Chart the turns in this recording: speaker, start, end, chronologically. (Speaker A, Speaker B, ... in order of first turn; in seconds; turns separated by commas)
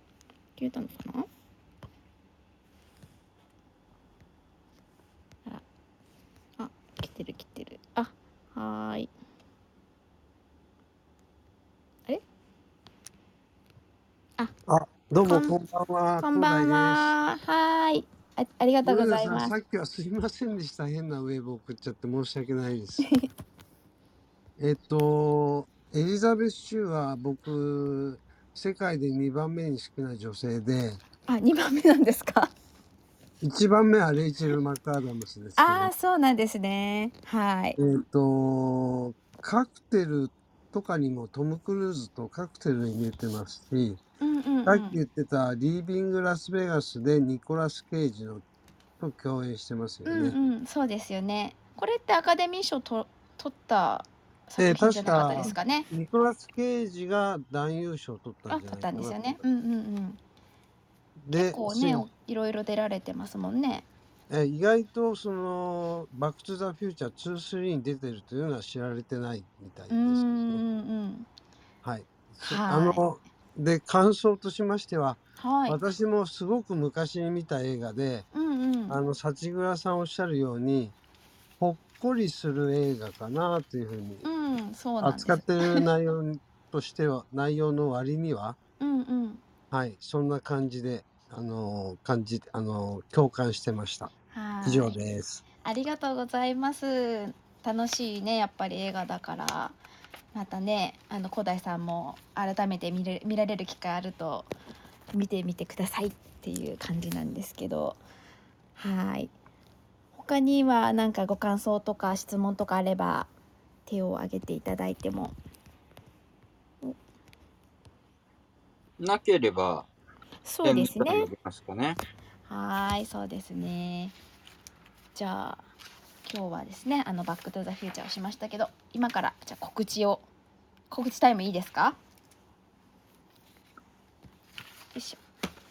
Speaker A: 0.6-1.3, Speaker A: 6.6-9.1, Speaker B: 14.7-17.1, Speaker A: 15.2-15.5, Speaker A: 16.2-19.5, Speaker B: 18.8-23.1, Speaker A: 23.0-23.3, Speaker B: 24.6-31.0, Speaker A: 31.3-32.5, Speaker B: 33.4-35.9, Speaker A: 35.6-37.8, Speaker B: 37.8-44.0, Speaker A: 44.2-45.0, Speaker B: 44.6-48.4, Speaker B: 49.0-50.4, Speaker A: 50.0-55.9, Speaker B: 54.6-59.4, Speaker A: 58.5-60.2, Speaker B: 61.2-62.1, Speaker A: 61.3-63.9, Speaker B: 64.3-70.6, Speaker A: 69.9-71.3, Speaker B: 71.8-78.3, Speaker A: 72.4-73.1, Speaker A: 75.4-75.8, Speaker A: 78.3-79.0, Speaker B: 78.9-80.9, Speaker B: 81.6-84.3, Speaker A: 84.2-85.8, Speaker B: 85.0-88.6, Speaker A: 88.8-89.4, Speaker B: 89.7-94.1, Speaker A: 94.3-95.0, Speaker B: 94.6-95.4, Speaker A: 95.6-99.8, Speaker A: 100.3-104.5, Speaker A: 105.1-108.0, Speaker A: 108.8-109.3, Speaker A: 110.1-113.3, Speaker A: 113.8-115.3, Speaker C: 119.0-119.9, Speaker A: 120.4-121.3, Speaker C: 120.6-122.0, Speaker A: 122.5-124.1, Speaker A: 125.1-125.6, Speaker A: 126.2-130.2, Speaker A: 130.9-132.0, Speaker A: 134.9-135.2